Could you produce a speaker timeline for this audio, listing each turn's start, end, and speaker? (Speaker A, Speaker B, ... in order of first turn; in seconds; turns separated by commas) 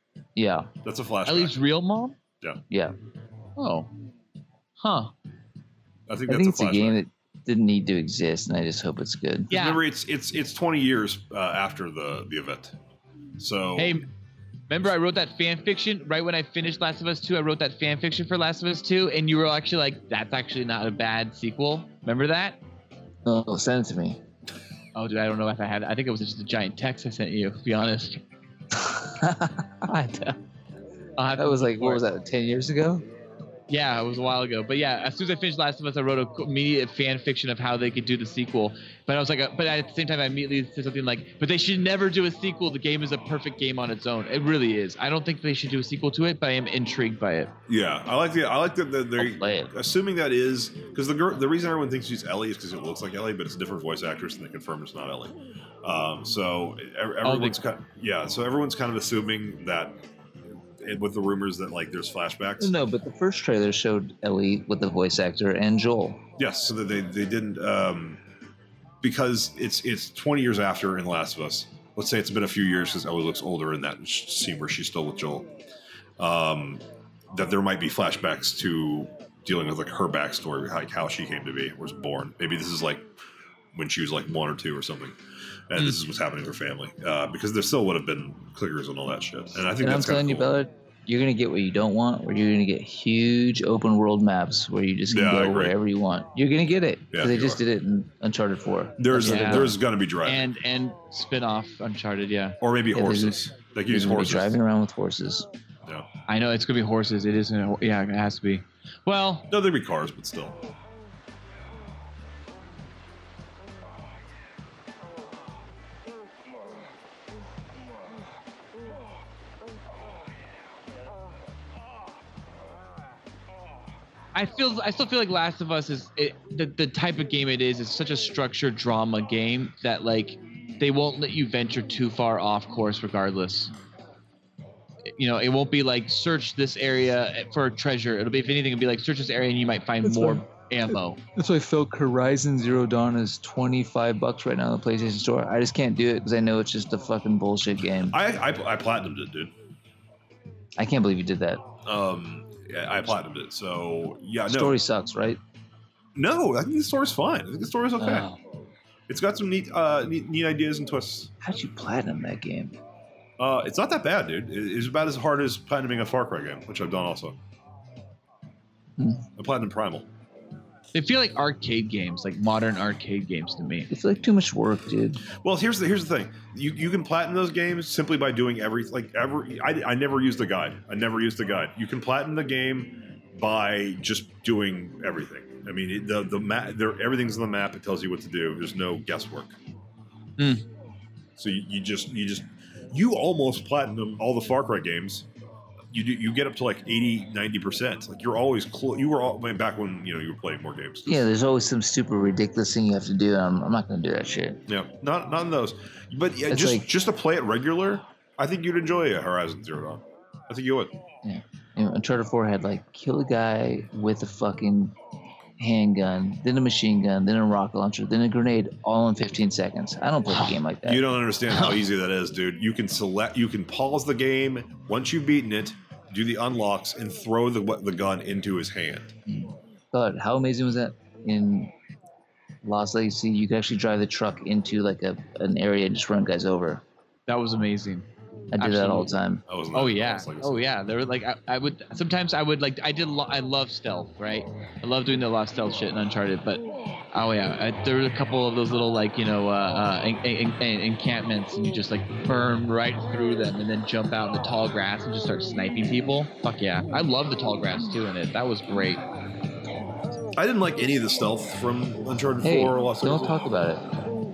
Speaker A: 0.3-0.7, Speaker B: 0.8-1.5, Speaker C: 1.2-2.2, Speaker A: 2.7-2.9, Speaker C: 3.6-3.9, Speaker C: 4.8-5.1, Speaker B: 6.1-7.0, Speaker A: 6.3-9.5, Speaker C: 9.5-9.8, Speaker B: 9.5-12.7, Speaker B: 13.4-14.0, Speaker C: 13.8-14.1, Speaker C: 14.7-22.6, Speaker A: 23.2-24.2, Speaker C: 24.9-28.2, Speaker A: 28.7-30.4, Speaker C: 31.2-32.0, Speaker A: 31.4-33.0, Speaker C: 33.7-47.5, Speaker B: 47.7-60.0, Speaker A: 49.2-49.7, Speaker C: 57.2-57.6, Speaker B: 60.8-62.8, Speaker A: 62.6-66.2, Speaker B: 66.4-68.2, Speaker B: 69.0-75.5, Speaker B: 76.2-83.1, Speaker B: 83.7-85.1, Speaker B: 85.7-90.5, Speaker A: 89.8-99.8, Speaker B: 95.1-95.7, Speaker B: 97.1-97.6, Speaker B: 99.0-100.4, Speaker C: 100.2-102.6, Speaker B: 102.6-104.5, Speaker A: 102.9-105.5, Speaker C: 106.3-109.5, Speaker B: 109.5-110.6, Speaker C: 124.3-133.7, Speaker C: 135.2-141.2, Speaker A: 140.0-140.4, Speaker A: 141.3-148.2, Speaker B: 148.1-149.5, Speaker A: 150.8-151.6, Speaker B: 151.8-154.8, Speaker A: 154.5-155.4, Speaker B: 156.2-158.3, Speaker A: 158.0-158.4, Speaker B: 159.1-161.3, Speaker A: 161.4-162.8, Speaker B: 163.4-167.4, Speaker A: 169.0-169.2, Speaker B: 169.4-170.1, Speaker C: 170.9-173.9, Speaker A: 173.9-175.2, Speaker B: 175.4-189.6, Speaker C: 190.4-190.6, Speaker B: 191.4-195.2, Speaker B: 195.9-201.2, Speaker A: 201.1-204.6, Speaker B: 204.7-210.9, Speaker A: 206.5-206.9, Speaker A: 211.2-214.9, Speaker A: 215.6-221.0, Speaker B: 220.8-229.1, Speaker A: 229.3-231.7, Speaker A: 232.6-236.8, Speaker C: 237.3-239.1, Speaker A: 238.5-239.4, Speaker B: 239.5-240.7, Speaker C: 239.7-259.0, Speaker B: 260.4-263.4, Speaker A: 262.4-263.8